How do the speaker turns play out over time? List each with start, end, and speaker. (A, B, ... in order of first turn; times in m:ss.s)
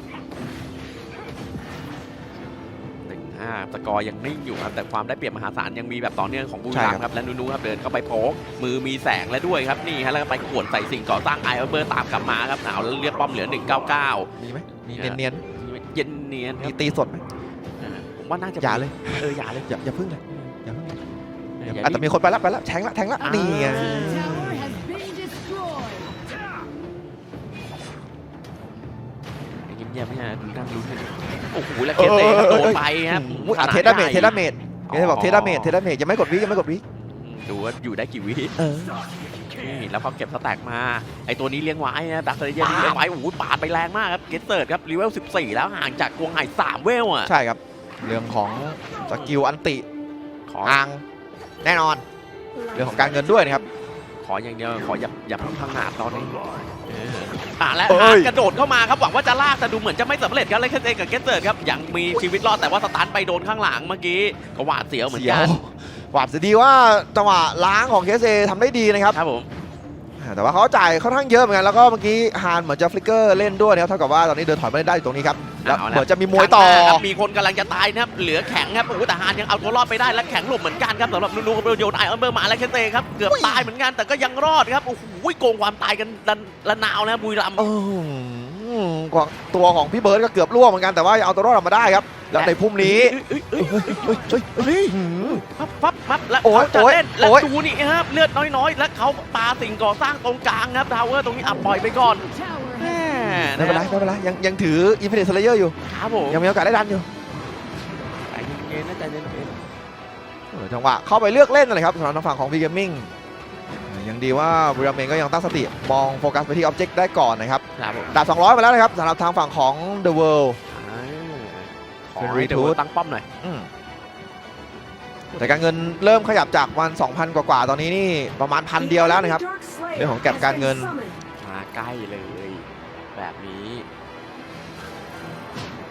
0:03.0-0:14.3 A
0:06.7-0:07.0 B
0:14.4-0:15.4 B
0:15.0-0:16.8 A
0:16.6-0:17.2 B
0:17.8-0:19.7 A
0:18.6-0:21.0 B
0:20.3-0:20.5 A
0:21.6-0:22.0 A
0:21.6-0:24.9 B
0:23.2-0:24.6 A
0:29.6-0:34.4 A
0:32.0-0:36.8 B
0:34.9-0:35.8 A
0:37.0-0:38.6 A
0:38.6-0:39.0 B
0:39.6-0:47.3 A
0:42.6-0:43.0 B
0:47.2-0:49.8 B
0:49.1-0:49.4 A
0:50.5-0:50.8 A
0:50.6-0:51.0 B
0:51.6-0:52.0 B
0:52.7-0:53.6 B
0:54.2-1:05.6 A
0:57.9-0:58.3 B
1:05.0-1:09.2 B
1:09.1-1:09.5 A
1:10.2-1:17.0 B
1:15.6-1:27.7 A
1:23.2-1:23.7 B
1:27.6-1:35.4 B
1:32.3-1:43.9 A
1:36.4-1:37.5 B
1:43.4-1:45.8 B
1:45.9-1:46.4 A
1:46.3-1:47.0 B
1:48.3-1:49.6 A
1:50.5-1:53.1 B
1:53.9-2:00.6 B
1:57.8-1:58.1 A
2:00.7-2:03.2 A
2:02.2-2:02.8 B
2:03.4-2:03.7 B
2:05.3-2:05.6 A
2:05.4-2:11.0 B
2:11.4-2:13.9 A